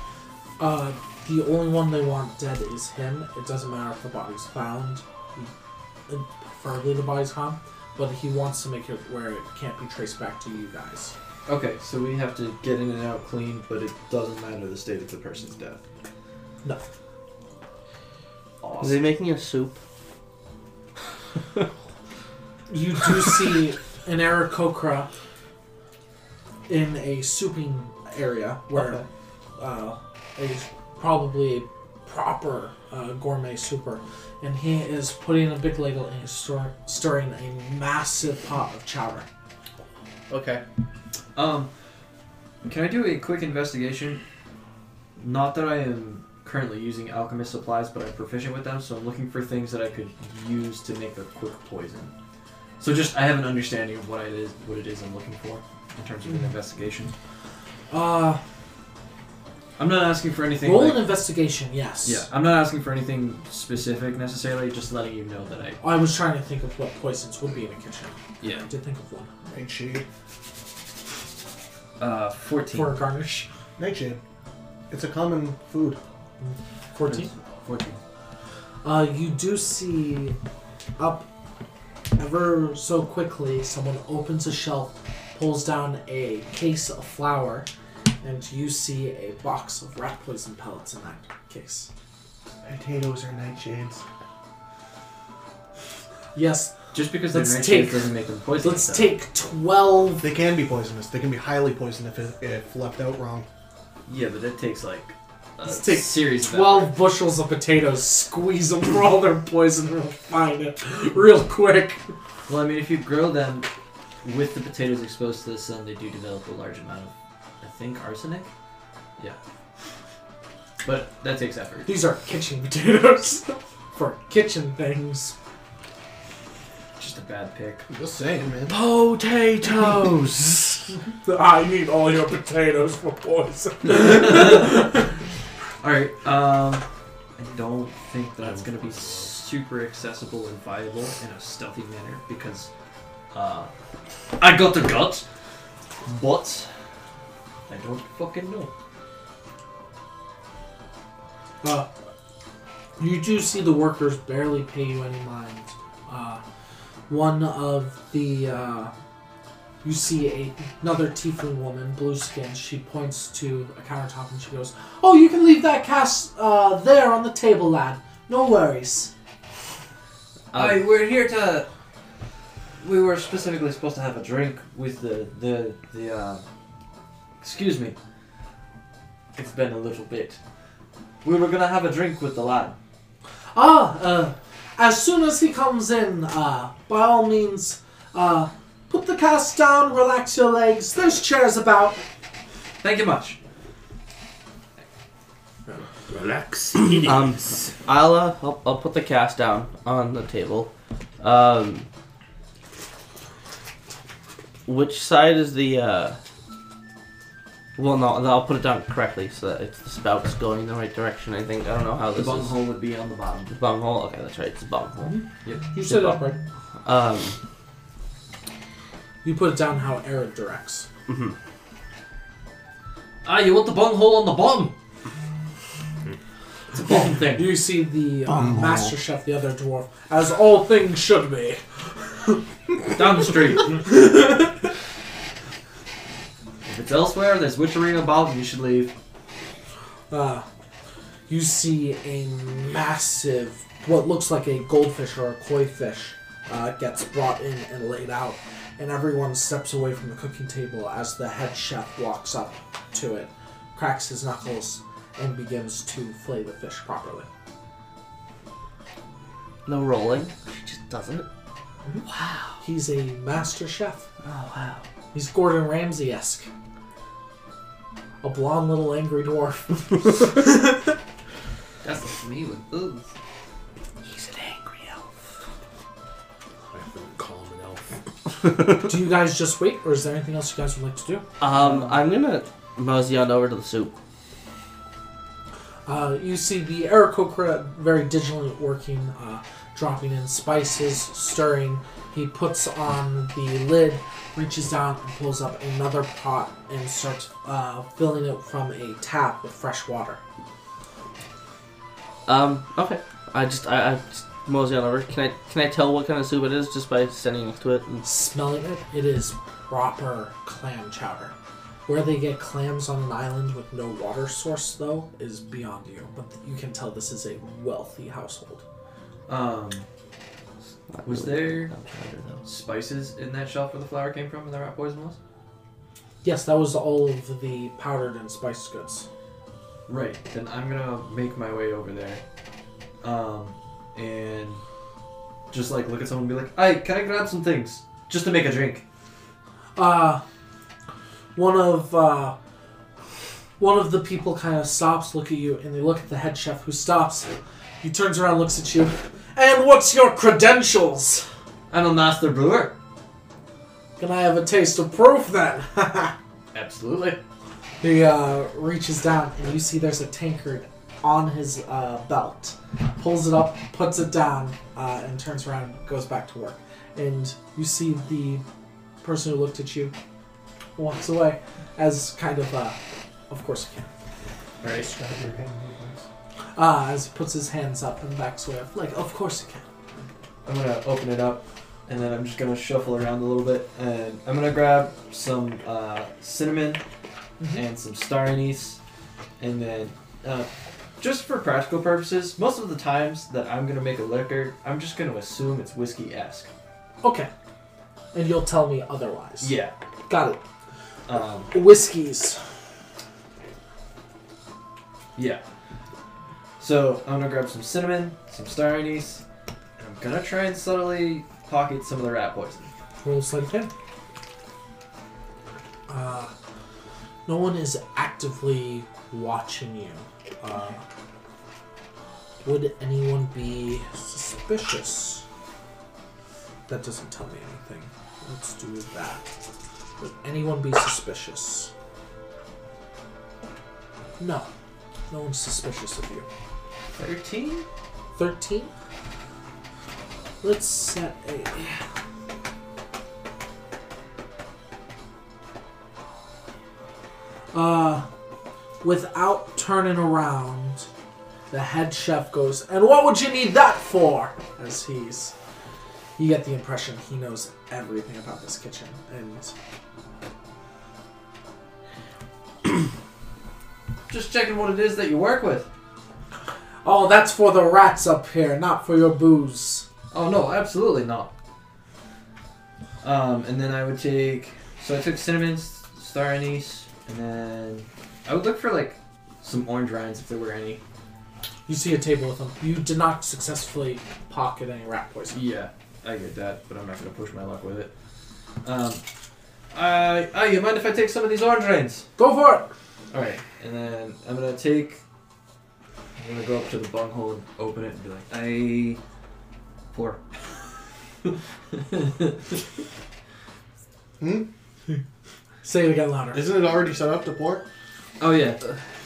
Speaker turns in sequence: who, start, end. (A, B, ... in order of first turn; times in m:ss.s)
0:00.6-0:05.5 A
0:06.1-0:11.1 A
0:11.4-0:15.8 B
0:18.6-0:19.0 B
0:18.8-0:19.8 C
0:22.7-0:25.1 A
0:26.7-0:29.0 A
0:28.7-0:29.0 B
0:29.6-0:39.2 A
0:40.3-0:40.6 D
0:41.3-0:41.7 B
0:42.6-0:44.2 B
0:45.2-0:52.1 B
0:52.8-0:57.1 B
0:57.9-0:58.4 A
0:59.8-1:01.1 B
1:00.6-1:02.3 A
1:02.0-1:05.8 B
1:05.8-1:09.3 A
1:08.4-1:08.7 B
1:09.5-1:10.0 D
1:12.0-1:13.0 B
1:12.7-1:13.5 A
1:13.8-1:14.2 D
1:14.9-1:16.0 D
1:16.4-1:17.3 A
1:17.1-1:18.0 B
1:18.8-1:20.4 A
1:21.0-1:21.3 A
1:22.2-1:27.7 A
1:28.2-1:31.9 A
1:32.6-1:34.0 D
1:36.3-1:36.7 A
1:36.9-1:39.1 B
1:37.3-1:40.2 A
1:40.2-1:43.5 D
1:44.1-1:46.9 B
1:45.6-1:52.0 A
1:52.5-1:53.7 B
1:54.2-1:58.5 B
2:00.8-2:01.9 B
2:01.8-2:05.3 A
2:07.0-2:07.8 B
2:07.9-2:08.7 D
2:08.7-2:10.9 C
2:11.2-2:15.1 A
2:14.2-2:14.8 B
2:15.8-2:16.8 B
2:17.4-2:22.7 B
2:18.4-2:19.3 E
2:23.3-2:23.7 B
2:24.4-2:25.2 B
2:26.0-2:26.7 B
2:27.7-2:28.7 B
2:31.6-2:31.9 A
2:33.0-2:36.4 A
2:37.1-2:38.9 A
2:39.8-2:49.1 A
2:50.5-2:50.8 C
2:50.5-2:51.7 B
2:52.8-2:56.4 B
2:57.4-2:58.0 B
2:59.3-3:00.4 B
3:01.2-3:02.8 B
3:03.5-3:12.0 A
3:12.8-3:13.4 B
3:16.1-3:17.7 E
3:17.0-3:21.9 C
3:24.6-3:26.2 C
3:27.8-3:32.5 C
3:32.1-3:33.6 B
3:33.5-3:35.1 C
3:35.0-3:36.4 A
3:35.8-3:36.2 C
3:36.8-3:37.4 C
3:39.2-3:40.8 A
3:41.1-3:41.3 C
3:43.2-3:44.7 B
3:46.7-3:47.6 B
3:47.2-3:53.0 A
3:48.3-3:48.9 D
3:52.9-3:53.8 B
3:53.7-3:54.6 A
3:56.6-3:58.9 B
4:00.1-4:00.4 A
4:01.3-4:17.3 A
4:19.6-4:21.3 C
4:22.0-4:22.6 C
4:22.6-4:24.0 A
4:24.2-4:24.8 C
4:25.1-4:26.5 A
4:28.2-4:30.9 A
4:31.8-4:33.1 B
4:34.0-4:35.0 C
4:36.7-4:37.8 E
4:38.8-4:41.2 A
4:41.4-4:43.9 C
4:41.5-4:42.0 B
4:45.8-5:00.2 A
5:02.2-5:08.0 C
5:08.0-5:11.3 A
5:11.8-5:18.6 A
5:19.3-5:19.8 B
5:20.9-5:22.4 C
5:21.0-5:21.7 B
5:22.4-5:25.2 B
5:26.2-5:29.0 A
5:29.9-5:32.2 B
5:33.0-5:34.6 B
5:35.5-5:38.8 B
5:39.8-5:40.2 A
5:41.3-5:42.3 A
5:43.6-5:51.3 A
5:51.7-5:52.7 B
5:54.0-5:56.1 A
5:56.5-5:57.2 B
5:57.8-6:08.4 A
6:09.0-6:09.9 A
6:10.8-6:12.8 A
6:13.3-6:13.9 A
6:14.6-6:16.0 D
6:16.5-6:19.6 A
6:20.4-6:26.8 B
6:27.5-6:28.8 B
6:29.4-6:30.5 B
6:31.0-6:36.5 B
6:37.0-6:37.3 A
6:38.1-6:39.5 A
6:39.4-6:39.7 B
6:40.1-6:40.4 A
6:41.1-6:41.5 B
6:41.5-6:42.4 A
6:45.2-6:45.4 B
6:46.6-6:49.2 B
6:49.8-6:52.7 B
6:53.0-6:53.7 A
6:55.9-6:56.3 A
6:57.2-7:00.8 A
7:02.4-7:05.2 A
7:06.7-7:09.3 A
7:10.0-7:11.7 A
7:14.2-7:14.5 A
7:15.1-7:16.2 A
7:17.0-7:17.6 B
7:18.2-7:18.7 A
7:20.4-7:21.8 A
7:27.5-7:28.0 A
7:28.8-7:30.9 A
7:31.5-7:35.3 A
7:36.2-7:39.5 A
7:44.1-7:45.7 B
7:46.8-7:49.8 A
7:50.1-7:51.3 B
7:53.0-8:00.8 B
8:01.7-8:05.4 A
8:05.3-8:07.9 B
8:08.6-8:09.0 B
8:09.7-8:12.0 B
8:12.2-8:12.7 A
8:13.1-8:15.0 B
8:16.2-8:19.0 B
8:19.9-8:20.2 B
8:21.9-8:22.3 B
8:24.2-8:24.5 D
8:25.6-8:26.5 A
8:26.3-8:27.6 D
8:28.2-8:28.8 B